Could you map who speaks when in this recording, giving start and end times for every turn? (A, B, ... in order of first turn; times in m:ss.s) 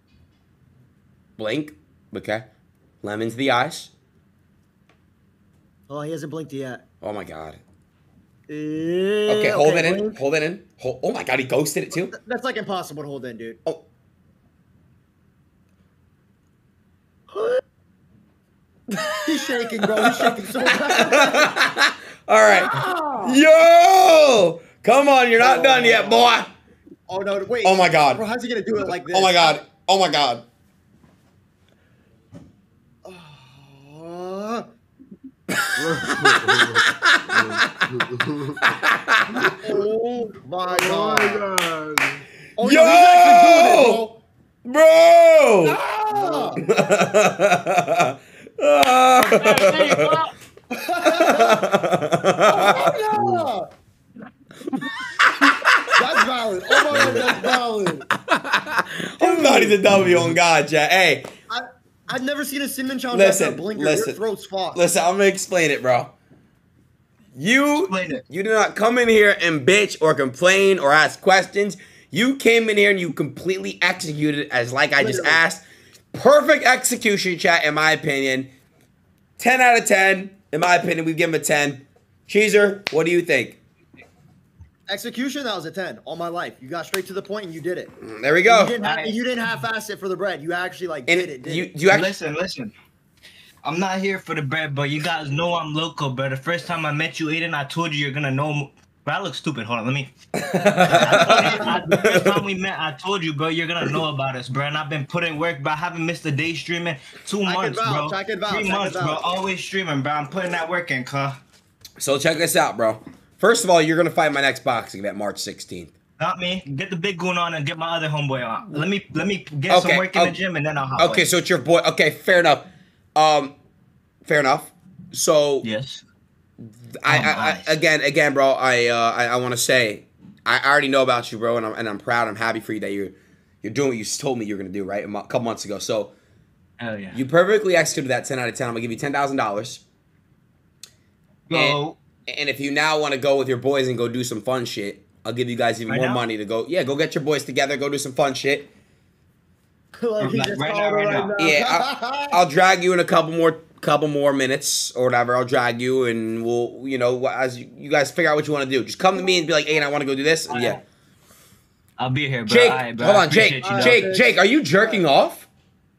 0:01.4-0:02.5 A
0:03.0-0:03.9 A
0:05.9-0:06.8 B
0:07.0-0:07.6 A
0:08.5-0:10.2 B
0:09.3-0:12.1 A
0:12.0-0:13.6 B
0:17.3-0:17.6 B
0:18.9-0:26.5 A
0:19.2-0:21.6 B
0:22.5-0:23.4 B
0:25.4-0:26.3 B
0:27.1-0:29.6 B
0:27.6-0:28.2 A
0:29.1-0:30.4 A
0:33.0-0:34.7 B
0:35.6-0:37.8 A
0:35.8-0:38.6 C
0:38.6-0:39.5 A
0:39.3-0:41.5 B
0:40.6-0:42.3 C
0:42.6-0:44.2 B
0:42.6-0:44.0 A
0:44.6-0:45.8 A
0:45.6-0:46.9 B
0:46.1-0:46.6 C
0:46.6-0:50.2 A
0:50.7-0:51.6 B
0:51.1-0:53.0 A
0:52.5-0:53.7 B
0:53.1-0:53.5 C
0:55.4-0:55.8 A
0:55.9-0:58.1 B
0:56.9-0:57.5 A
0:56.9-0:57.2 C
0:58.3-1:01.3 A
0:59.2-0:59.8 B
0:59.8-1:00.4 C
1:01.5-1:04.8 B
1:03.1-1:04.2 A
1:04.8-1:06.1 A
1:07.4-1:18.5 A
1:07.8-1:08.2 D
1:15.0-1:15.4 B
1:19.4-1:23.6 A
1:24.9-1:27.9 B
1:28.0-1:28.8 A
1:28.5-1:31.7 B
1:28.8-1:29.2 D
1:31.1-1:32.1 A
1:31.9-1:32.7 D
1:33.6-1:40.1 D
1:40.5-1:42.4 A
1:40.8-1:51.4 D
1:40.9-1:41.6 B
1:47.5-1:49.2 B
1:52.0-1:55.9 A
1:56.2-2:01.3 D
1:59.7-2:00.4 A
2:01.0-2:03.6 A
2:04.2-2:05.6 A
2:05.6-2:06.0 D
2:06.6-2:16.1 A
2:07.1-2:07.7 D
2:16.8-2:17.2 D
2:17.1-2:19.8 A
2:21.5-2:22.0 D
2:21.5-2:28.7 A
2:25.9-2:26.2 D
2:30.0-2:32.4 B
2:30.2-2:31.4 D
2:31.4-2:40.8 A
2:40.5-2:40.8 D
2:42.0-2:44.1 D
2:42.5-2:45.5 A
2:43.6-2:45.0 B